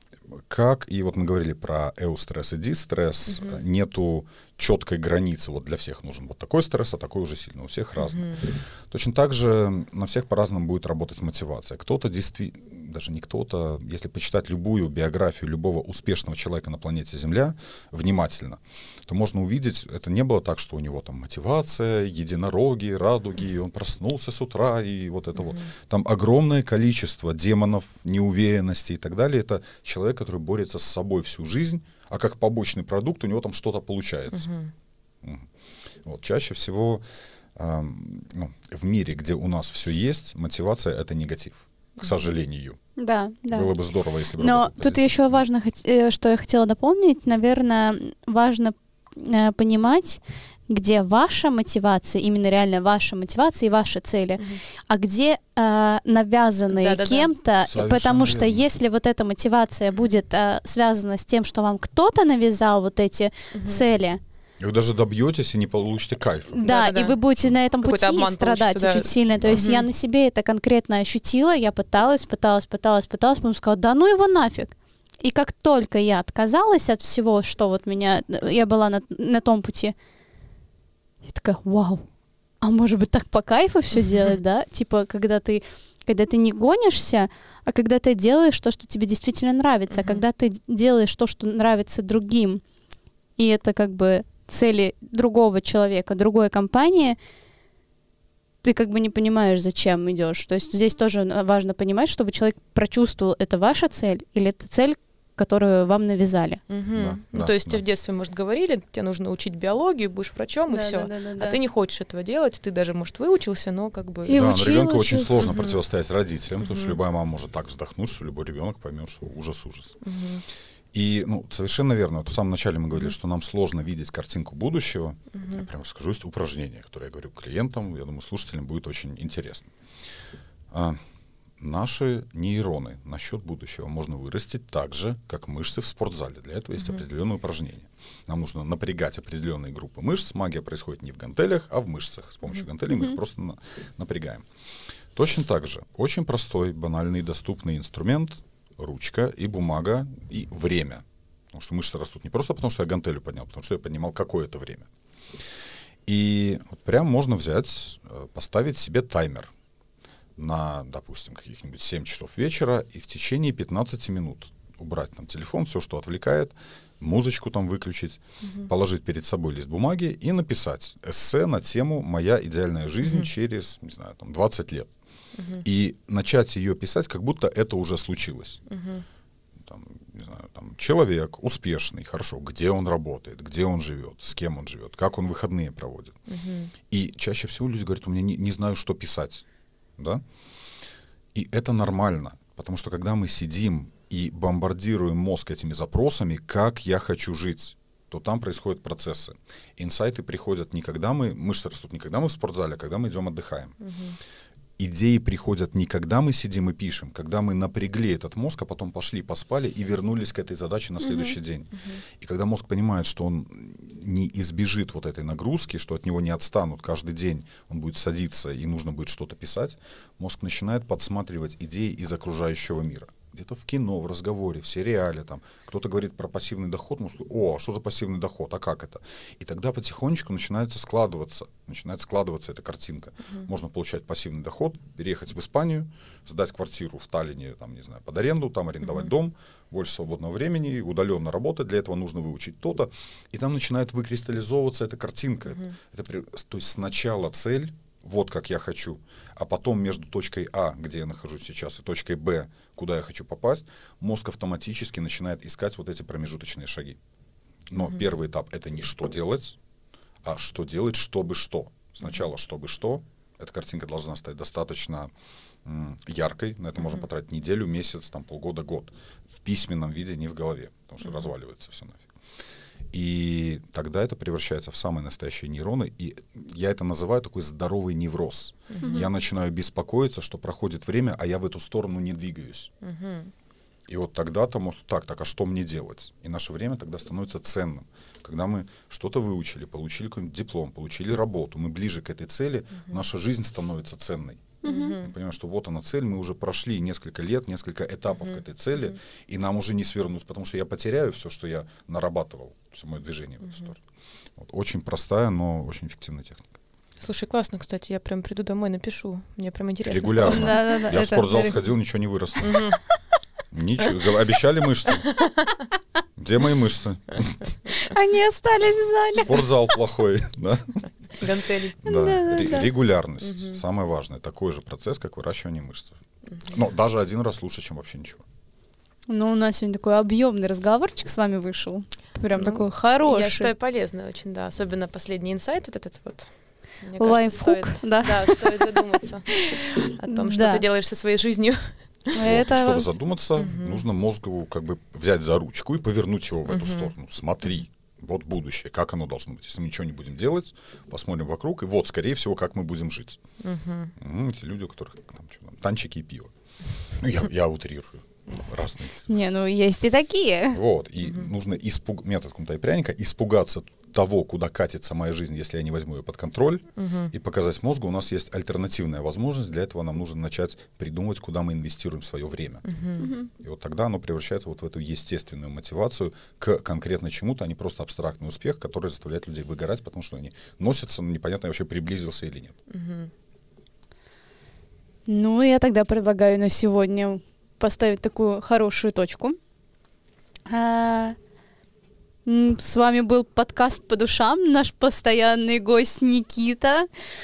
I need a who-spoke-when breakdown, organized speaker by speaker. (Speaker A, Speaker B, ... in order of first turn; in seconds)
Speaker A: 0.5-34.5, 35.2-35.5, 36.0-37.0, 37.5-42.8, 43.5-45.4, 57.6-58.6, 64.6-66.6, 69.4-69.8, 106.9-107.8, 114.3-120.0, 120.9-129.7, 130.7-131.0, 131.6-144.4, 145.1-154.9, 156.1-159.5, 160.4-174.9, 175.6-178.6, 179.6-186.2, 186.9-189.4, 190.0-190.2, 191.3-203.8, 204.8-257.0, 257.7-259.6, 260.2-265.1, 265.6-272.1, 272.9-282.7, 283.9-303.8, 304.4-306.5, 309.8-312.7, 313.5-315.1, 316.2-317.5, 319.1-320.8, 321.8-328.2, 342.2-353.2, 354.0-356.3, 356.9-359.1, 360.5-372.6, 373.3-382.5
Speaker B: 3.3-3.6, 8.0-8.4, 34.3-34.7, 56.7-57.3, 63.5-63.8, 66.6-67.2, 67.8-69.8, 89.9-90.2, 106.7-114.5, 116.6-117.0, 120.0-120.4, 125.3-125.7, 173.0-173.3, 175.3-175.6, 178.7-179.0, 186.3-186.7, 203.8-204.2, 211.8-212.0, 257.7-258.0, 278.7-279.1, 282.8-283.3, 294.6-295.1, 307.0-310.8, 312.4-312.8, 321.2-321.8, 323.2-323.6, 332.3-342.1, 343.4-343.8, 346.5-346.9, 353.4-353.9, 366.8-367.1, 372.6-373.1, 382.7-383.1
Speaker C: 43.0-43.7, 44.4-64.2, 66.5-79.9, 81.2-82.0, 82.6-92.6, 93.4-97.2, 98.6-106.6, 110.7-111.6, 114.3-115.3, 211.0-211.3, 294.6-294.9, 310.2-311.6, 317.8-319.5, 321.8-322.7, 329.1-333.5, 337.0-340.6, 342.1-342.9, 359.1-360.6, 373.0-373.3, 385.1-389.4, 390.5-391.2, 392.2-396.9